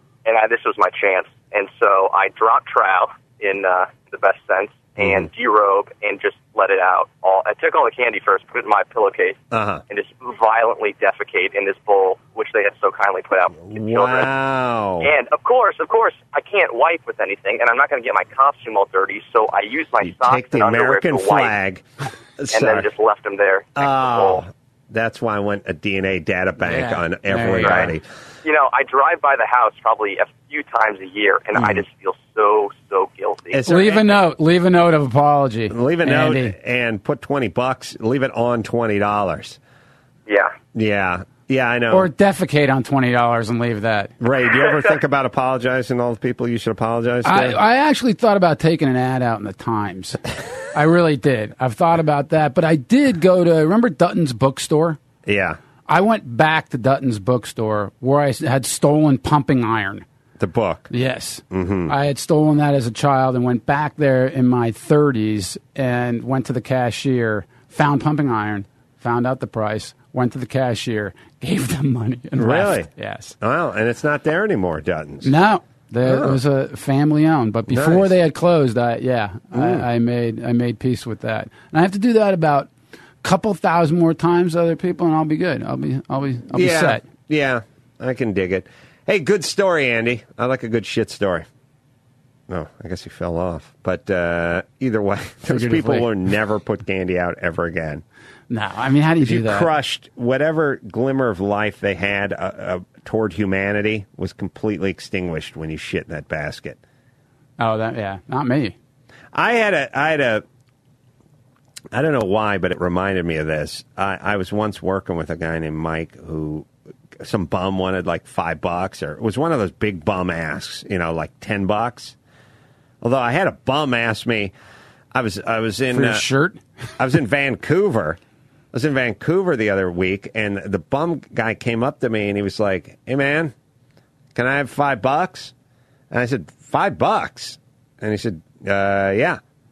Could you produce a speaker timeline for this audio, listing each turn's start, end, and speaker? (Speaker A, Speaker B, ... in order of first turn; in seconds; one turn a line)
Speaker A: 0.3-9.4
Speaker B: 5.0-5.3
Speaker B: 9.5-9.8
Speaker A: 9.9-14.3
Speaker B: 13.6-15.1
Speaker A: 15.0-21.6
Speaker B: 20.0-21.9
Speaker B: 22.4-22.9
Speaker A: 22.5-24.4
Speaker B: 23.7-28.0
Speaker C: 26.6-27.9
Speaker A: 27.6-27.9
Speaker A: 28.4-33.8
Speaker B: 31.6-31.8
Speaker B: 33.5-34.2
Speaker C: 33.6-36.6
Speaker B: 35.7-39.6
Speaker A: 40.3-40.5
Speaker B: 40.7-42.1
Speaker C: 41.9-44.1
Speaker B: 44.2-47.6
Speaker C: 47.2-50.2
Speaker C: 50.7-55.0
Speaker B: 55.3-55.6
Speaker C: 55.9-60.0
Speaker B: 60.4-60.9
Speaker C: 60.9-73.3
Speaker B: 61.5-61.9
Speaker B: 72.4-75.3
Speaker C: 75.2-82.7
Speaker B: 76.1-76.4
Speaker B: 77.7-78.1
Speaker B: 79.5-79.9
Speaker C: 83.2-87.1
Speaker B: 86.5-91.5
Speaker B: 92.5-98.0
Speaker C: 95.5-96.1
Speaker C: 98.5-99.7
Speaker B: 99.2-106.8
Speaker C: 107.6-108.8
Speaker B: 109.3-110.4
Speaker B: 111.9-116.7
Speaker B: 117.2-122.2
Speaker B: 123.0-124.5
Speaker B: 125.1-126.2
Speaker C: 125.9-126.6
Speaker B: 127.0-128.2
Speaker B: 128.7-133.5
Speaker B: 134.3-135.5
Speaker B: 136.1-139.4